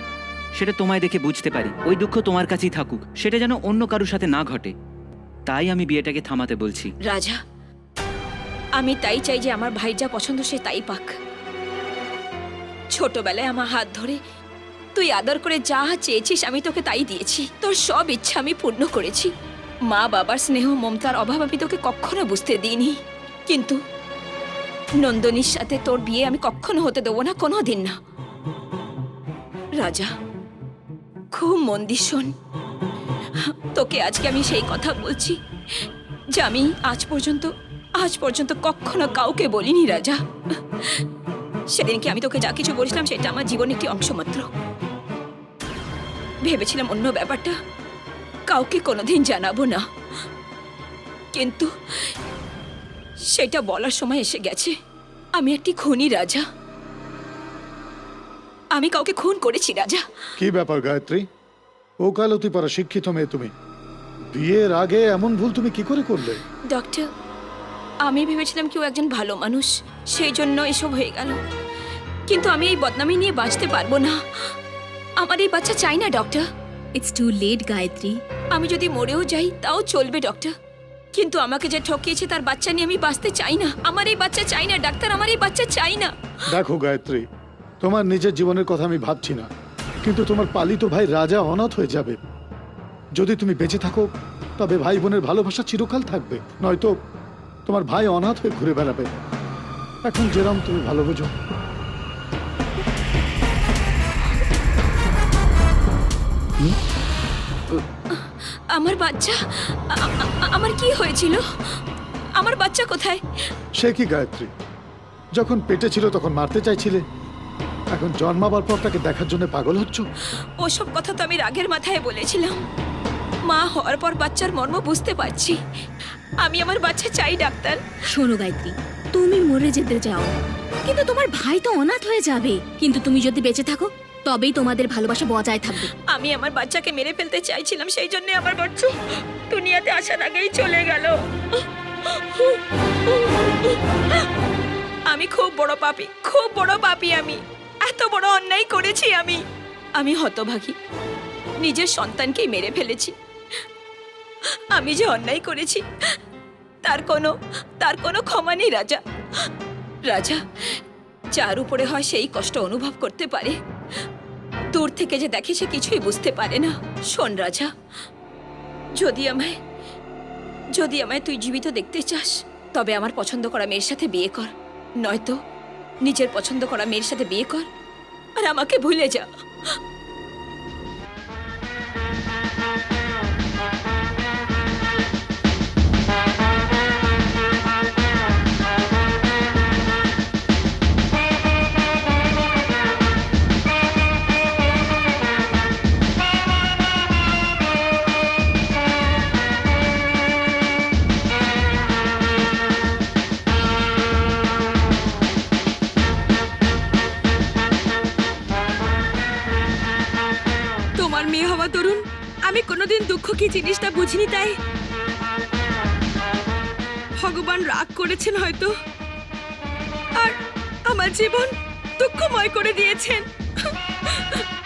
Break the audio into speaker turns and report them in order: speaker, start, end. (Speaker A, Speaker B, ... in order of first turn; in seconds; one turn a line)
Speaker A: 0.6-4.7
Speaker A: 5.5-6.9
Speaker B: 7.1-7.4
Speaker B: 8.8-11.1
Speaker B: 12.9-14.2
Speaker B: 15.0-19.3
Speaker B: 19.9-23.0
Speaker B: 23.5-23.8
Speaker B: 25.0-27.9
Speaker B: 29.8-30.1
Speaker B: 31.3-32.3
Speaker B: 33.5-35.4
Speaker B: 36.4-40.2
Speaker B: 41.7-44.5
Speaker B: 46.4-47.5
Speaker B: 48.5-49.8
Speaker B: 51.3-52.1
Speaker B: 53.3-54.7
Speaker B: 55.4-56.4
Speaker B: 58.8-60.0
Speaker C: 60.4-61.2
Speaker C: 62.0-63.5
Speaker C: 64.3-66.4
Speaker B: 66.7-67.1
Speaker B: 68.0-71.4
Speaker B: 72.3-74.2
Speaker B: 75.2-76.5
Speaker D: 77.0-78.2
Speaker B: 78.5-80.5
Speaker B: 81.2-86.1
Speaker C: 86.5-87.2
Speaker C: 87.8-89.5
Speaker C: 90.0-92.2
Speaker C: 93.2-94.1
Speaker C: 94.6-96.9
Speaker C: 97.7-99.1
Speaker C: 100.0-101.3
Speaker B: 108.1-111.4
Speaker B: 112.4-113.2
Speaker C: 113.8-114.5
Speaker C: 115.4-117.0
Speaker C: 117.9-120.1
Speaker B: 120.6-122.6
Speaker B: 123.5-125.6
Speaker B: 126.4-127.8
Speaker D: 128.1-135.9
Speaker B: 135.8-139.0
Speaker B: 139.5-141.2
Speaker B: 142.1-143.8
Speaker B: 145.1-149.4
Speaker B: 150.0-150.8
Speaker B: 151.6-153.1
Speaker B: 154.7-155.8
Speaker B: 156.8-159.0
Speaker B: 160.1-160.4
Speaker B: 161.3-163.6
Speaker B: 164.7-167.7
Speaker B: 169.0-169.6
Speaker B: 170.8-174.5
Speaker B: 175.0-175.4
Speaker B: 176.1-177.7
Speaker B: 178.4-179.3
Speaker E: 211.0-214.6
Speaker E: 217.2-218.7
Speaker E: 220.2-224.4